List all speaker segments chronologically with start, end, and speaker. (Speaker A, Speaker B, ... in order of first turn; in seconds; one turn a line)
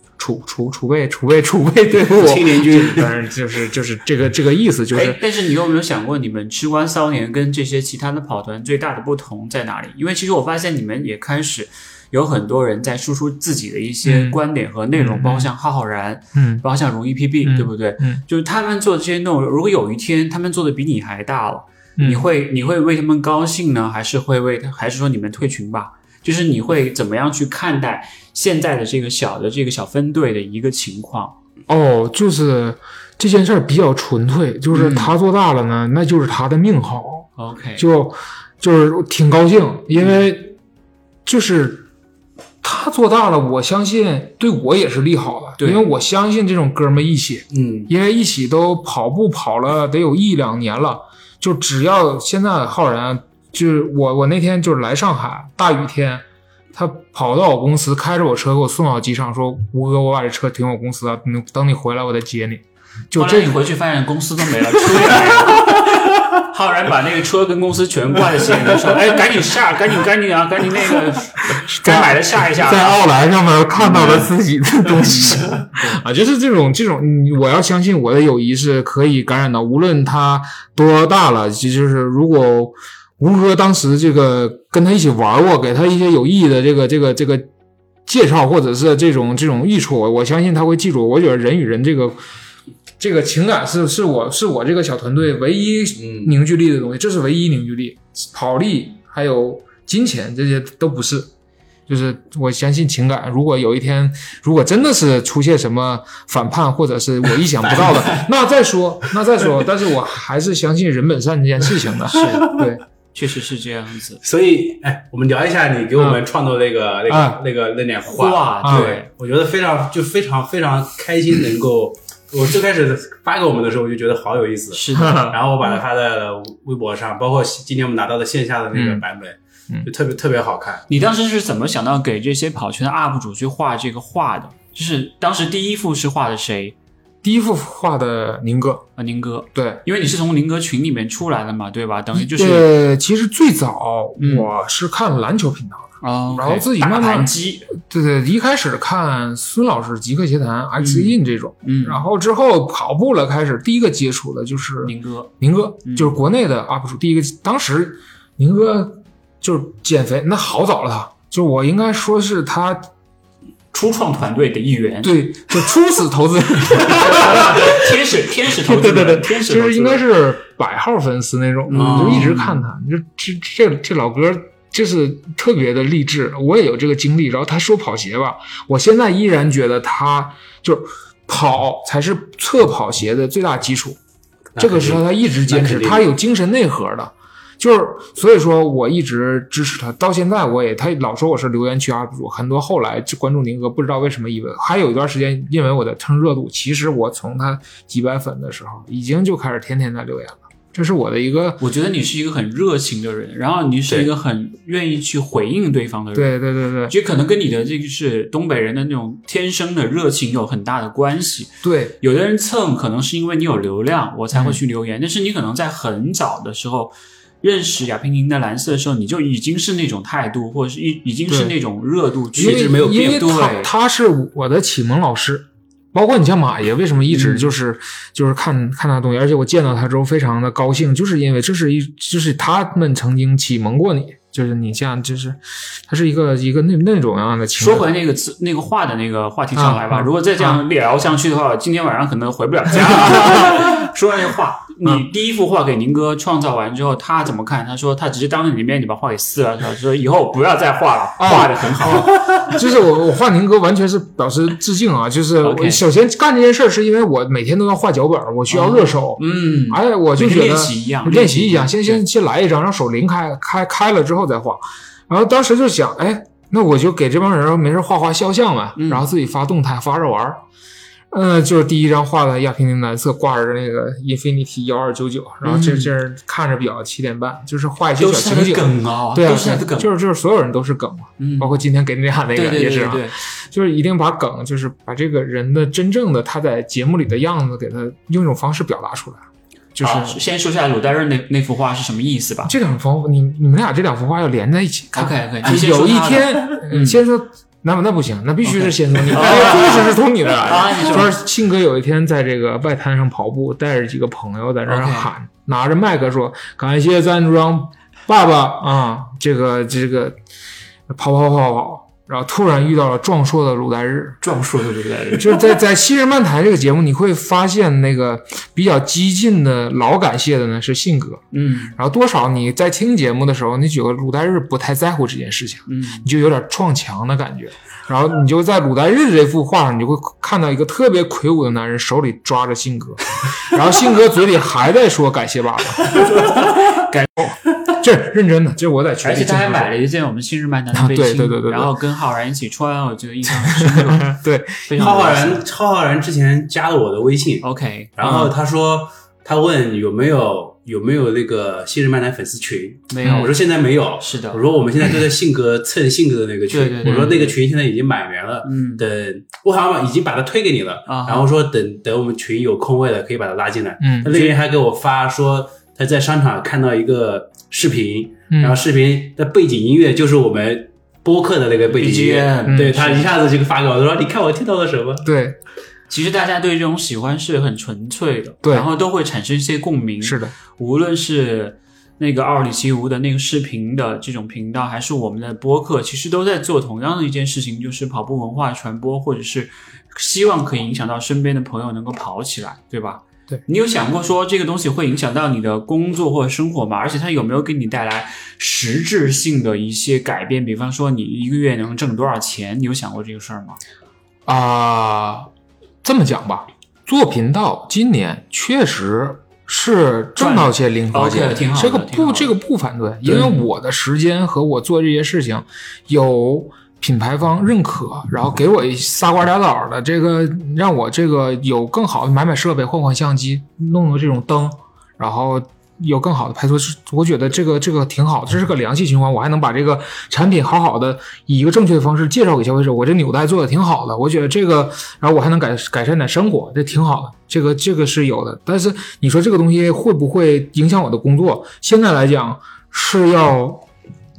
Speaker A: 0.2-5.2
Speaker B: 2.0-3.1
Speaker C: 4.9-31.4
Speaker A: 14.0-14.4
Speaker A: 15.0-15.5
Speaker A: 16.3-16.6
Speaker A: 17.4-18.2
Speaker A: 22.0-22.3
Speaker A: 31.7-40.5
Speaker C: 34.7-35.2
Speaker C: 37.4-37.9
Speaker A: 41.2-41.9
Speaker A: 42.6-63.6
Speaker C: 45.6-45.8
Speaker B: 47.5-47.9
Speaker C: 63.1-73.0
Speaker A: 64.8-65.4
Speaker A: 71.5-87.5
Speaker C: 73.8-74.2
Speaker B: 74.0-74.2
Speaker C: 75.0-76.0
Speaker A: 88.1-92.2
Speaker A: 93.0-101.3
Speaker B: 96.0-96.3
Speaker A: 101.9-112.8
Speaker B: 107.6-108.3
Speaker C: 112.1-114.2
Speaker B: 114.2-130.9
Speaker A: 117.1-117.4
Speaker C: 118.0-119.1
Speaker A: 118.6-119.0
Speaker C: 124.7-125.4
Speaker A: 124.9-125.4
Speaker A: 128.7-129.0
Speaker C: 130.9-136.8
Speaker A: 137.2-138.9
Speaker C: 139.0-142.7
Speaker A: 139.6-139.8
Speaker A: 142.1-162.9
Speaker C: 144.2-144.5
Speaker C: 146.0-147.7
Speaker C: 150.8-152.0
Speaker C: 154.8-155.3
Speaker C: 155.8-156.2
Speaker C: 163.7-165.2
Speaker A: 165.0-184.0
Speaker C: 166.8-170.0
Speaker C: 171.7-172.6
Speaker B: 171.7-172.3
Speaker B: 184.6-186.1
Speaker A: 184.6-201.6
Speaker C: 201.6-206.4
Speaker A: 206.2-206.9
Speaker C: 206.9-223.7
Speaker A: 211.6-212.0
Speaker A: 214.3-214.6
Speaker A: 221.3-221.6
Speaker B: 222.3-223.3
Speaker A: 222.4-237.9
Speaker C: 227.1-227.5
Speaker C: 237.6-252.6
Speaker A: 239.6-240.7
Speaker A: 242.8-243.9
Speaker A: 251.2-270.4
Speaker C: 255.4-255.8
Speaker C: 258.5-262.0
Speaker C: 268.8-269.1
Speaker A: 271.1-289.2
Speaker C: 275.4-275.9
Speaker C: 278.0-279.9
Speaker C: 281.2-281.6
Speaker C: 282.4-283.1
Speaker A: 289.8-290.2
Speaker C: 289.8-292.5
Speaker A: 292.4-310.2
Speaker C: 294.9-297.0
Speaker C: 298.4-301.1
Speaker C: 304.7-305.1
Speaker A: 310.9-314.2
Speaker C: 314.2-315.5
Speaker A: 315.2-321.2
Speaker C: 321.3-321.8
Speaker A: 321.8-336.3
Speaker C: 325.7-326.1
Speaker C: 335.9-337.1
Speaker A: 337.2-339.7
Speaker C: 339.0-345.4
Speaker A: 340.7-341.7
Speaker A: 343.4-345.0
Speaker B: 344.8-347.5
Speaker C: 347.4-347.9
Speaker B: 348.0-375.1
Speaker A: 348.0-348.3
Speaker C: 352.9-353.3
Speaker C: 354.0-354.4
Speaker C: 356.5-357.3
Speaker A: 356.9-357.2
Speaker C: 358.4-358.8
Speaker C: 360.9-361.3
Speaker A: 363.8-364.1
Speaker C: 364.1-364.4
Speaker A: 368.3-368.6
Speaker C: 371.7-373.1
Speaker A: 372.5-372.8
Speaker A: 375.0-375.4
Speaker C: 375.9-403.6
Speaker A: 380.0-380.3
Speaker A: 404.3-405.3
Speaker A: 405.8-443.7
Speaker C: 410.2-412.3
Speaker C: 413.1-413.4